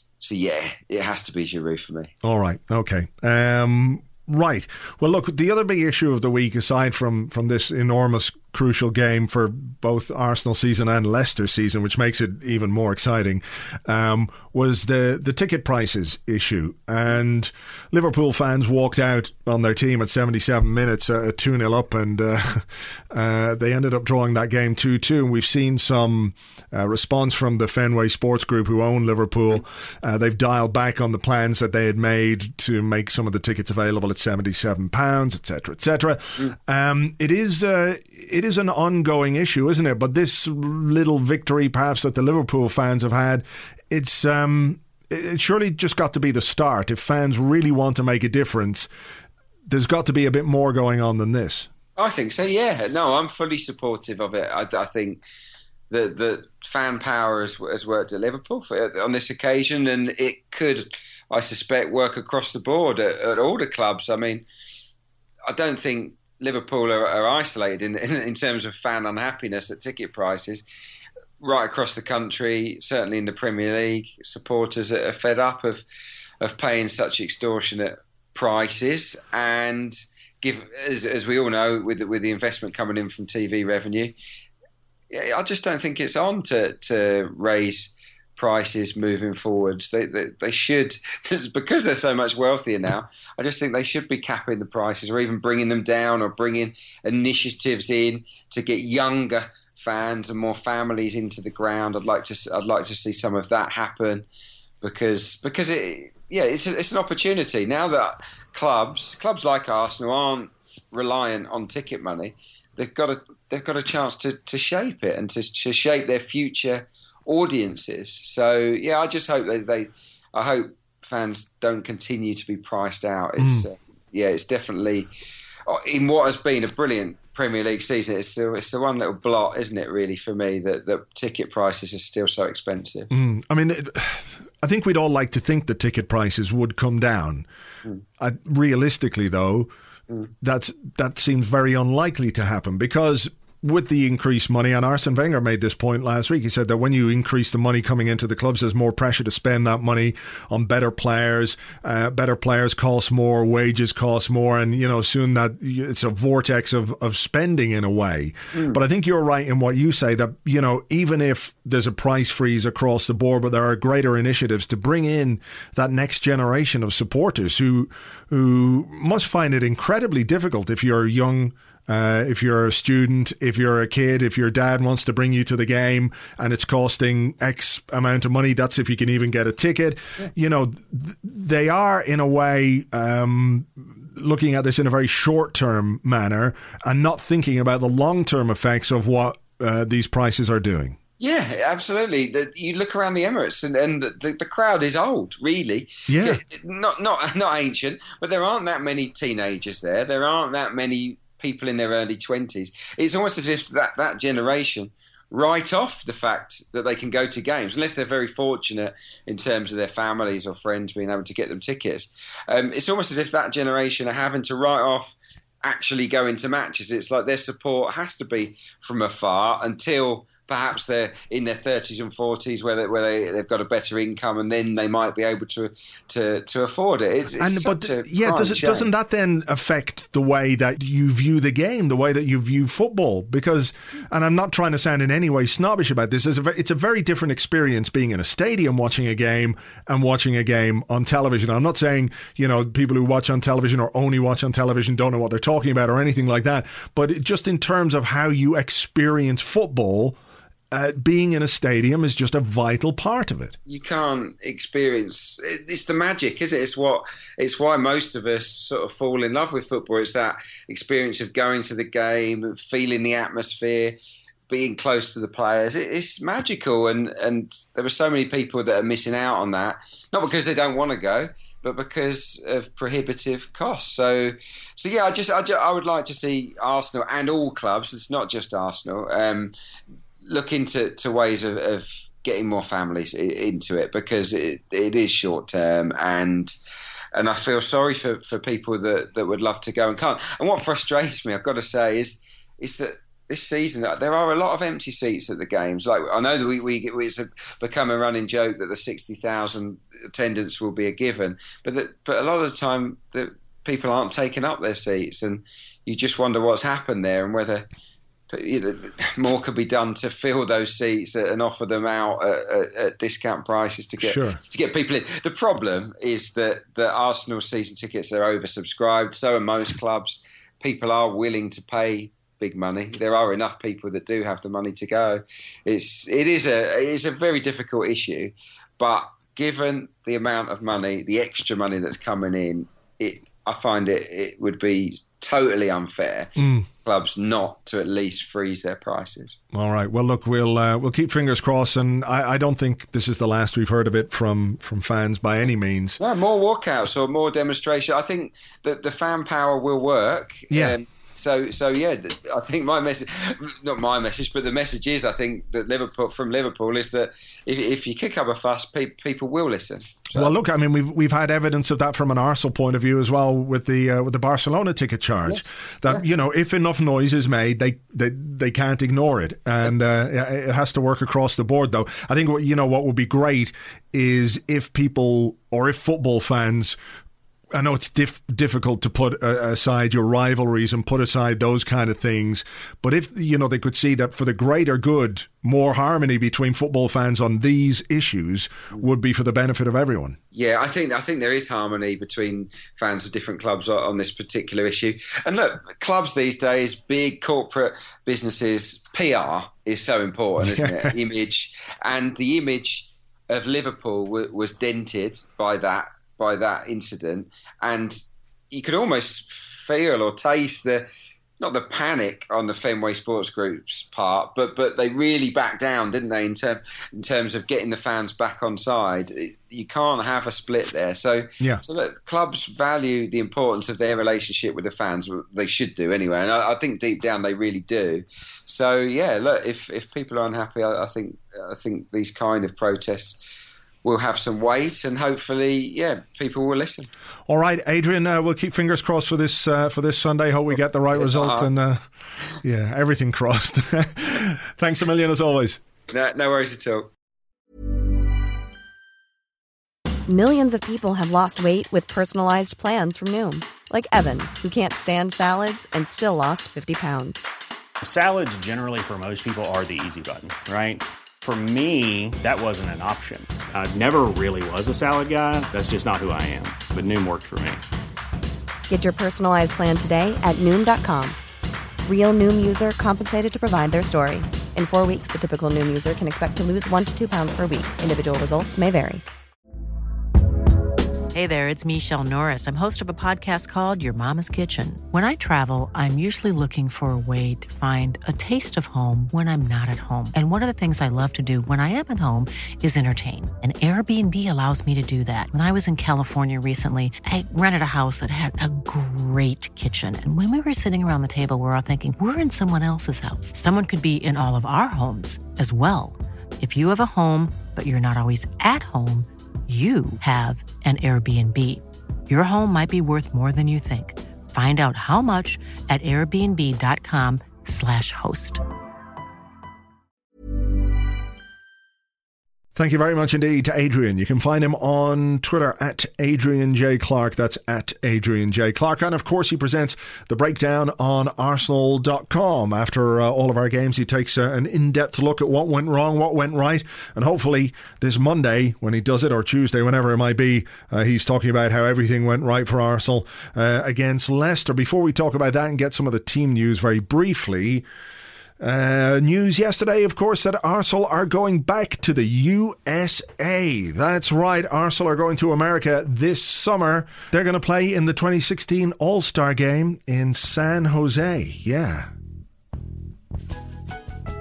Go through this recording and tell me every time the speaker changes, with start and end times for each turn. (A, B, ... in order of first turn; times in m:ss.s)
0:00.2-0:02.1 A
0:02.2-0:48.9 B
0:49.7-0:51.7 B
0:52.0-0:55.2 A
0:55.9-1:04.4 A
1:05.5-1:10.6 A
1:11.4-1:15.8 A
1:16.4-1:24.1 A
1:25.1-1:44.3 A
1:44.8-2:05.1 A
2:03.4-2:03.7 B
2:05.7-2:13.1 A
2:13.1-2:17.5 B
2:18.2-2:19.7 B
2:20.4-3:11.0 B
3:11.2-3:48.9 A
3:16.1-3:16.4 B
3:47.4-4:10.2 B
4:10.7-4:13.6 B
4:13.7-4:24.0 A
4:24.5-4:39.5 A
4:40.2-4:46.5 A
4:47.1-5:07.6 A
5:08.3-5:36.3 A
5:14.0-5:14.4 B
5:36.4-5:36.7 B
5:36.8-5:39.4 A
5:39.5-5:46.0 B
5:46.0-6:00.3 A
5:50.5-5:50.8 B
6:00.1-6:16.8 B
6:05.2-6:06.0 A
6:17.5-6:30.2 B
6:30.3-6:48.0 A
6:40.4-6:40.9 B
6:48.5-6:50.9 A
6:51.4-7:13.2 A
7:13.8-7:16.9 A
7:17.3-7:21.8 B
7:20.9-7:21.5 A
7:22.4-7:25.6 B
7:25.9-7:26.9 A
7:30.1-7:37.2 C
7:37.8-7:47.6 D
7:48.7-7:51.2 C
7:51.8-7:59.0 C
8:01.1-8:38.4 E
8:42.5-9:07.6 B
9:08.4-9:21.9 B